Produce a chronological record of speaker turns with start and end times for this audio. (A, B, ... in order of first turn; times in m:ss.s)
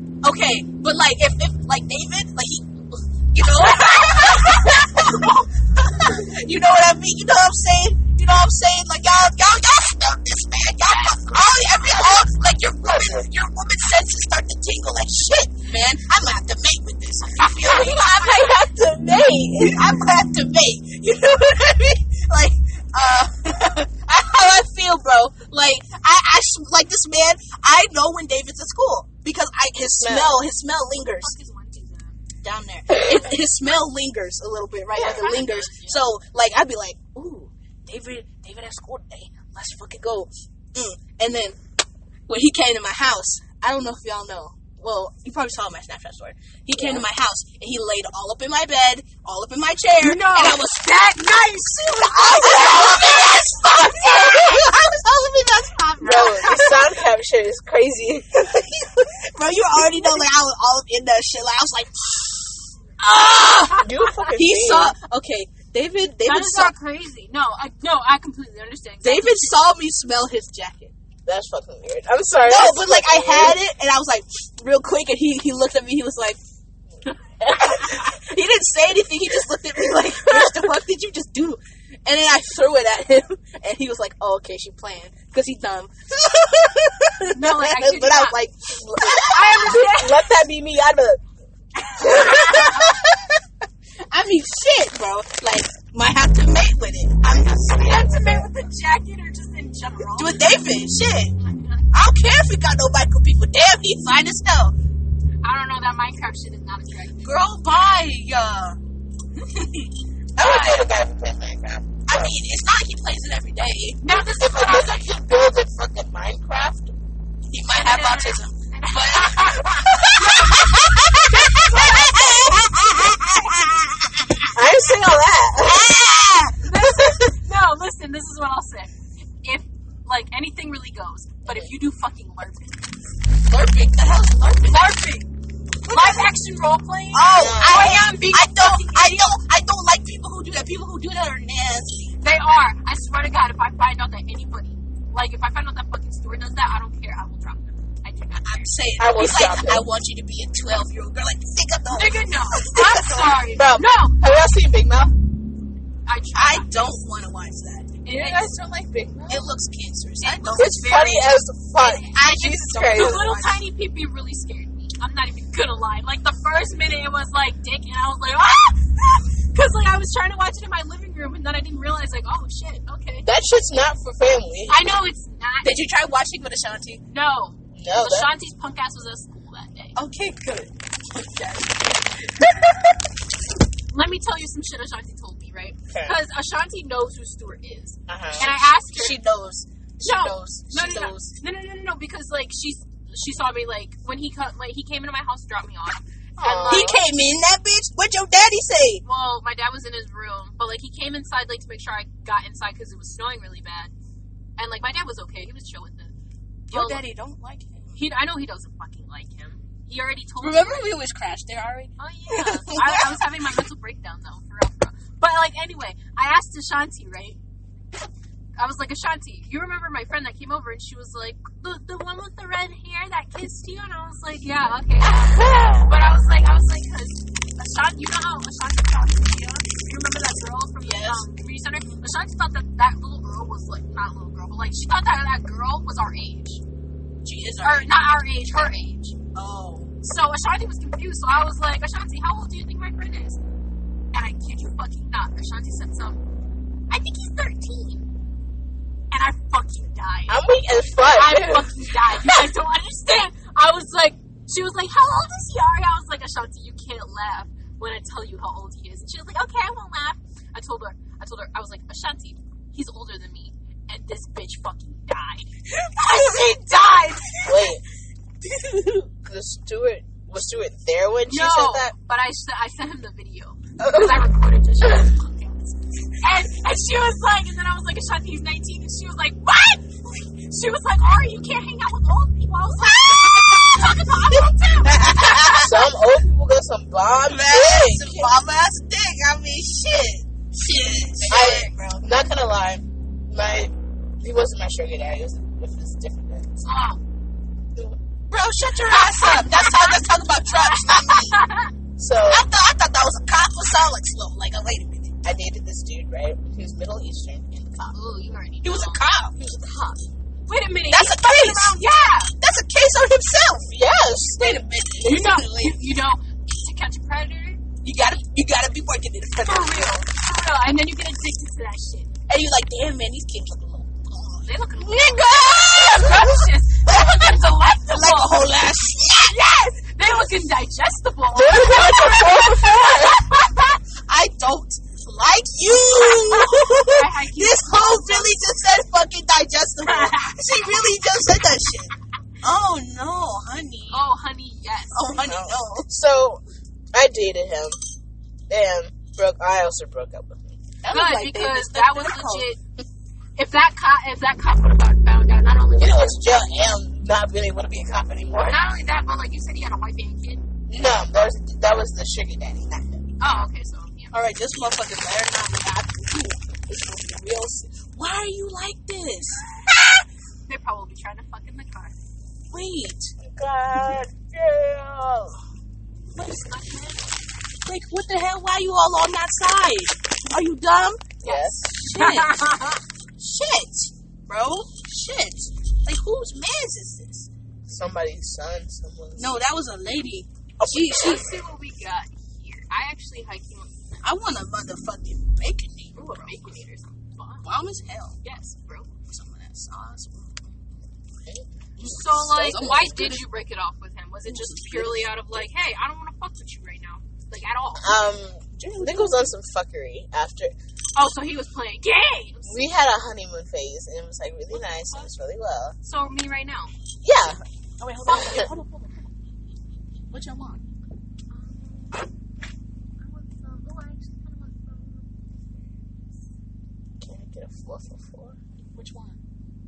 0:00.2-0:31.3 A
0:03.5-0:05.3 B
0:10.9-0:11.2 B
0:17.6-0:20.0 C
0:17.7-0:18.5 B
0:30.0-0:30.4 C
0:31.2-0:32.1 B
0:32.4-0:41.6 A
0:35.0-0:35.2 C
0:35.0-0:36.1 B
0:42.3-0:56.7 A
0:46.7-0:47.0 C
0:50.0-0:54.8 B
0:54.2-0:54.7 C
0:55.9-0:56.8 B
0:56.0-0:58.6 C
0:58.4-1:06.7 A
1:03.6-1:04.4 B
1:03.8-1:05.0 C
1:06.2-1:09.5 B
1:09.0-1:10.9 A
1:11.2-1:13.6 C
1:12.4-1:16.4 A
1:17.4-1:29.8 A
1:27.3-1:28.4 B
1:29.0-1:31.2 C
1:29.0-1:30.2 B
1:31.8-1:33.0 A
1:32.0-1:33.2 C
1:34.1-1:38.5 A
1:37.8-1:40.4 B
1:40.2-1:41.4 A
1:41.4-1:41.9 B
1:41.9-1:44.8 A
1:45.4-1:47.3 B
1:47.2-1:48.8 A
1:50.4-1:52.3 C
1:50.4-1:50.9 A
1:52.1-1:54.0 A
1:54.0-1:55.2 B
1:54.3-1:56.9 C
1:57.5-2:04.5 A
1:57.7-2:00.6 B
2:01.6-2:02.5 B
2:04.5-2:06.0 C
2:05.6-2:06.7 A
2:06.6-2:08.9 B
2:09.4-2:12.9 B
2:11.4-2:11.7 C
2:13.5-2:15.0 A
2:14.6-2:15.3 B
2:15.8-2:16.3 A
2:15.9-2:19.4 B
2:17.1-2:22.2 A
2:17.3-2:18.0 C
2:22.2-2:28.8 B
2:28.4-2:33.4 A
2:29.0-2:29.9 C
2:31.9-2:34.2 B
2:33.5-2:35.2 C
2:36.0-2:36.8 B
2:36.3-2:38.0 A
2:38.0-2:38.5 B
2:38.1-2:39.5 C
2:39.3-2:41.3 A
2:40.2-2:53.3 B
2:40.5-2:43.4 C
2:42.2-2:43.6 A
2:53.2-2:54.8 C
2:54.7-2:55.8 B
2:55.6-2:57.0 A
2:57.1-3:00.0 B
2:57.7-2:58.3 C
3:00.0-3:02.9 A
3:03.9-3:09.2 B
3:05.9-3:06.2 C
3:08.1-3:08.5 C
3:08.4-3:11.3 A
3:10.0-3:17.0 B
3:16.4-3:17.0 C
3:16.7-3:19.0 A
3:19.0-3:23.9 B
3:24.6-3:26.1 B
3:26.7-3:27.0 B
3:26.7-3:28.0 A
3:27.9-3:30.9 B
3:30.4-3:33.2 A
3:32.0-3:37.4 B
3:38.6-3:56.6 B
3:50.8-3:51.3 A
3:57.2-3:58.0 A
3:57.6-3:59.2 B
3:59.3-3:59.9 A
4:00.0-4:03.4 B
4:04.1-4:06.2 B
4:06.9-4:08.1 B
4:09.1-4:27.7 B
4:10.3-4:11.7 C
4:27.4-4:27.8 C
4:29.0-4:31.9 C
4:31.3-4:45.7 B
4:33.8-4:34.2 C
4:42.8-4:45.8 A
4:45.5-4:48.3 C
4:47.3-4:52.0 A
4:51.3-4:51.7 B
4:51.3-4:56.5 C
4:56.6-4:57.0 B
4:58.3-5:01.4 A
4:58.8-5:00.0 B
5:00.6-5:01.7 B
5:02.0-5:02.5 C
5:02.2-5:05.2 A
5:05.2-5:07.9 C
5:07.9-5:09.0 B
5:08.6-5:09.3 A
5:09.4-5:10.0 C
5:10.5-5:12.3 B
5:10.9-5:13.7 A
5:13.7-5:14.6 C
5:14.2-5:15.8 A
5:15.0-5:17.7 B
5:17.8-5:20.0 A
5:19.4-5:22.1 B
5:22.3-5:29.4 A
5:24.4-5:28.5 B
5:29.3-5:33.6 B
5:31.3-5:33.2 C
5:31.8-5:33.5 A
5:34.1-5:44.1 A
5:36.1-5:38.4 B
5:39.8-5:40.6 B
5:43.9-5:45.0 B
5:44.9-5:45.9 A
5:45.1-5:46.4 C
5:46.9-5:47.8 C
5:48.5-5:50.6 C
5:50.8-5:52.5 A
5:50.9-5:52.6 B
5:53.4-5:56.5 B
5:55.8-5:58.6 C
5:58.3-6:00.5 B
6:00.7-6:03.1 C
6:03.2-6:04.2 B
6:04.1-6:09.5 A
6:10.5-6:11.9 B
6:12.5-6:13.1 A
6:13.2-6:15.4 C
6:16.1-6:17.1 B
6:17.6-6:22.6 A
6:21.2-6:21.7 C
6:21.2-6:22.8 B
6:23.2-6:27.3 A
6:27.7-6:29.4 C
6:29.2-6:31.3 A
6:30.6-6:31.1 C
6:30.8-6:33.7 B
6:34.0-6:36.4 A
6:35.9-6:37.5 B
6:37.4-6:38.2 A
6:38.2-6:38.9 B
6:39.1-6:40.5 A
6:41.8-6:43.2 A
6:41.8-6:48.0 B
6:44.2-6:45.1 A
6:47.8-6:50.5 C
6:48.6-6:49.3 A
6:50.9-6:52.6 B
6:52.4-6:55.7 C
6:54.5-6:55.1 B
6:55.8-6:56.7 B
6:57.0-6:57.4 C
6:57.8-6:59.1 A
6:58.1-6:58.5 C
7:00.1-7:00.6 A
7:01.3-7:02.1 B
7:03.0-7:05.4 B
7:07.0-7:08.4 C
7:08.7-7:09.2 A